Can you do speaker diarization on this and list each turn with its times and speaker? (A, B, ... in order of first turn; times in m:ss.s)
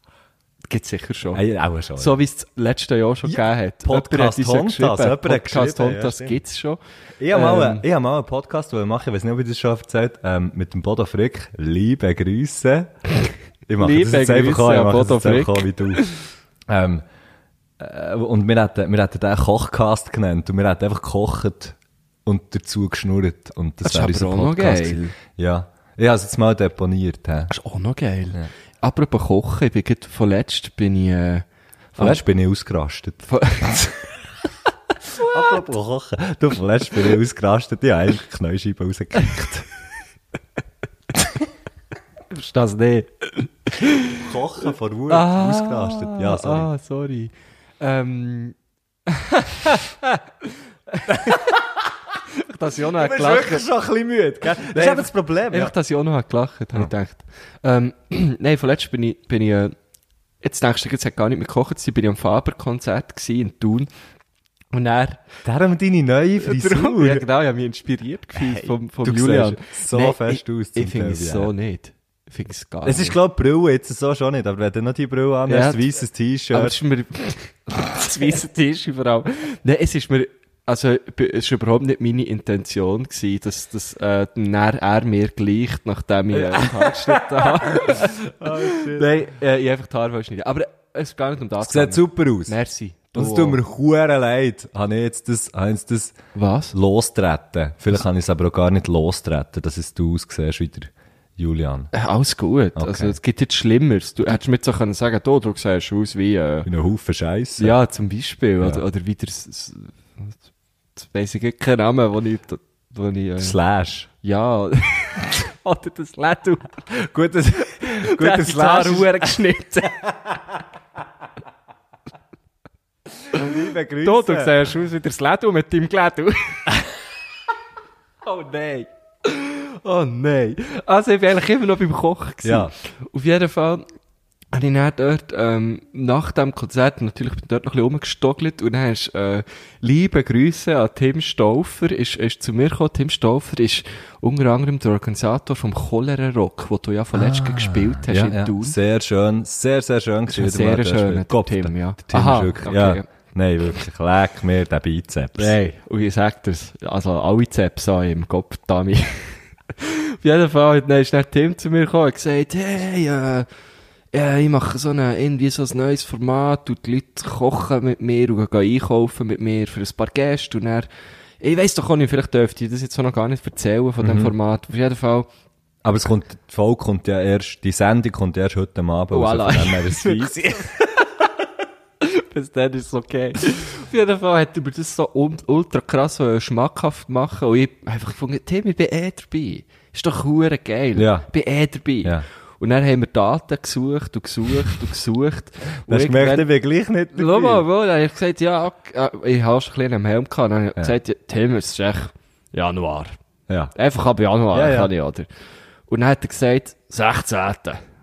0:00.7-0:01.4 A
0:01.3-0:02.2 B
0:02.0-0:06.8 A
0:03.3-0:06.4 B
0:07.2-0:12.9 B
0:07.3-0:07.8 A
0:13.7-0:16.0 B
0:13.8-0:16.2 A
0:16.7-0:17.0 B
0:17.8-0:27.5 B
0:23.8-0:25.2 A
0:27.5-0:31.5 A
0:32.0-0:34.0 B
0:33.3-0:33.9 A
0:35.1-0:39.7 B
0:42.3-0:44.2 A
0:44.2-0:46.7 B
0:45.1-0:48.6 A
0:49.1-0:49.9 A
0:51.0-0:51.4 A
0:51.1-0:51.6 B
0:52.4-0:53.7 A
0:52.9-0:55.7 B
0:54.6-0:59.8 A
1:00.4-1:03.9 A
1:04.7-1:05.2 A
1:05.4-1:07.3 B
1:06.4-1:13.2 A
1:08.4-1:11.5 B
1:12.8-1:16.8 B
1:15.5-1:16.0 A
1:16.5-1:33.6 A
1:26.3-1:29.2 B
1:31.6-1:32.6 B
1:33.1-1:36.2 B
1:36.3-1:36.8 A
1:36.7-1:41.9 B
1:41.9-1:46.7 A
1:42.8-1:43.2 B
1:46.7-1:47.8 B
1:47.6-1:50.4 A
1:51.0-1:53.6 A
1:53.4-1:54.1 B
1:54.2-1:56.8 A
1:56.9-2:00.6 B
1:57.8-2:00.0 A
2:03.3-2:04.6 B
2:04.0-2:06.7 A
2:08.2-2:13.8 A
2:12.4-2:12.7 B
2:14.5-2:28.8 A
2:27.1-2:35.6 B
2:30.3-2:33.1 A
2:35.4-2:43.5 A
2:44.1-2:50.9 A
2:51.4-2:55.3 A
2:54.0-2:54.3 B
2:55.8-3:00.6 B
2:59.1-3:01.1 A
3:02.0-3:16.5 A
3:11.0-3:11.3 B
3:15.9-3:17.6 B
3:17.1-3:23.2 A
3:23.7-3:25.3 A
3:24.5-3:24.9 B
3:25.9-3:27.8 A